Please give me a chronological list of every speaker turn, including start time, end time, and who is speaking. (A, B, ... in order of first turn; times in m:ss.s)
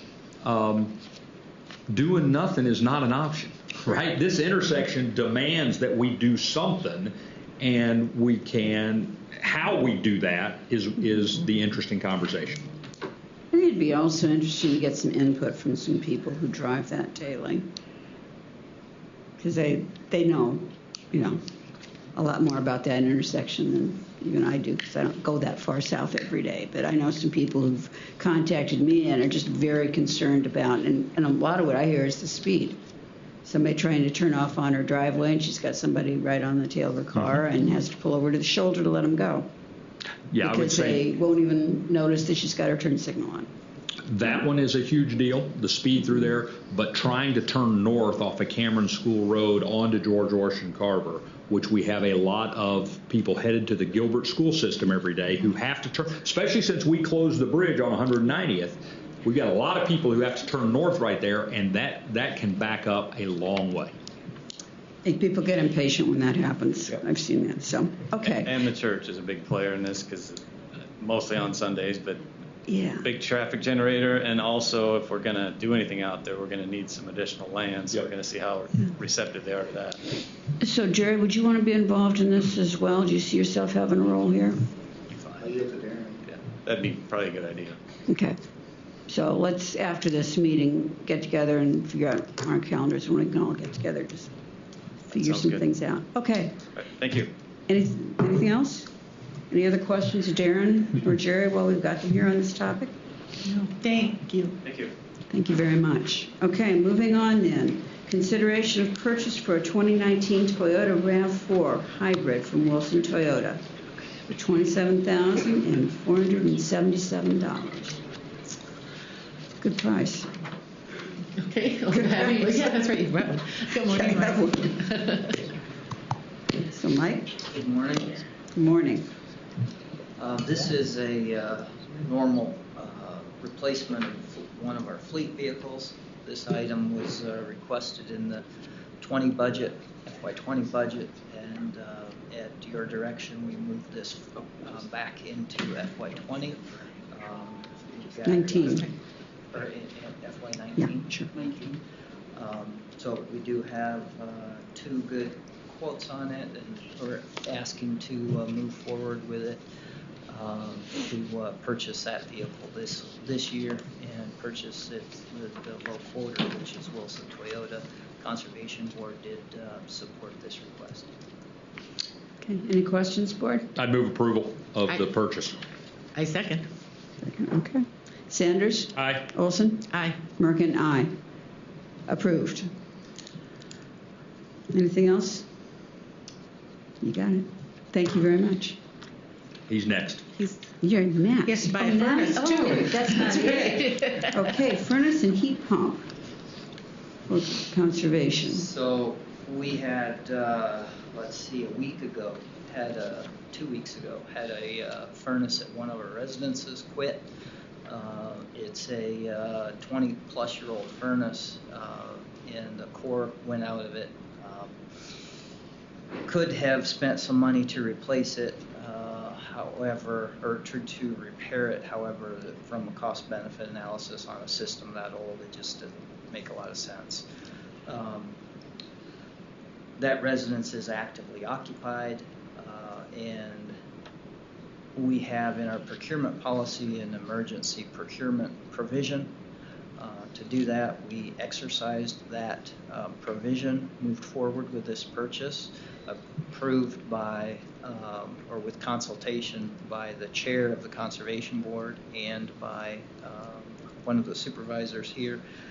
0:00.4-0:01.0 A
0:01.9-0:12.7 A
0:13.5-0:17.7 B
0:19.4-0:21.4 B
0:22.2-0:32.8 B
0:33.4-0:39.5 B
0:40.3-0:41.0 A
0:40.4-0:43.5 B
0:44.1-1:03.9 A
1:05.0-1:08.5 B
1:08.2-1:10.4 C
1:11.0-1:12.2 C
1:12.7-1:13.1 B
1:13.0-1:20.0 C
1:20.6-1:24.6 B
1:25.6-1:26.1 D
1:26.3-1:27.8 C
1:28.1-1:28.4 B
1:29.1-1:34.3 B
1:35.1-1:36.6 B
1:35.2-1:35.6 C
1:36.8-1:37.3 C
1:37.7-1:38.9 B
1:39.5-1:42.9 B
1:43.4-1:44.6 E
1:44.6-1:44.9 C
1:45.3-1:53.6 B
1:54.3-1:58.0 B
1:59.6-2:00.3 B
2:01.4-2:05.4 E
2:03.9-2:04.7 B
2:06.6-2:07.4 B
2:07.4-2:08.2 D
2:08.6-2:09.1 B
2:10.2-2:18.5 D
2:19.0-2:29.0 D
2:28.2-2:28.9 B
2:29.5-2:31.8 D
2:30.8-2:31.3 B
2:32.4-2:39.6 D
2:40.3-2:51.1 D
2:52.4-2:53.7 B
2:53.8-2:55.6 A
2:56.2-2:56.7 E
2:57.2-3:01.1 B
2:59.0-2:59.3 A
2:59.9-3:00.2 E
3:02.1-3:02.7 B
3:04.7-3:05.5 B
3:07.0-3:08.8 B
3:09.7-3:10.3 A
3:10.8-3:16.1 B
3:11.5-3:14.2 E
3:17.3-3:18.7 B
3:18.4-3:27.3 D
3:27.9-3:34.8 D
3:36.2-3:47.2 D
3:47.9-3:48.4 D
3:50.0-3:53.8 D
3:55.0-3:59.4 D
4:00.0-4:15.4 D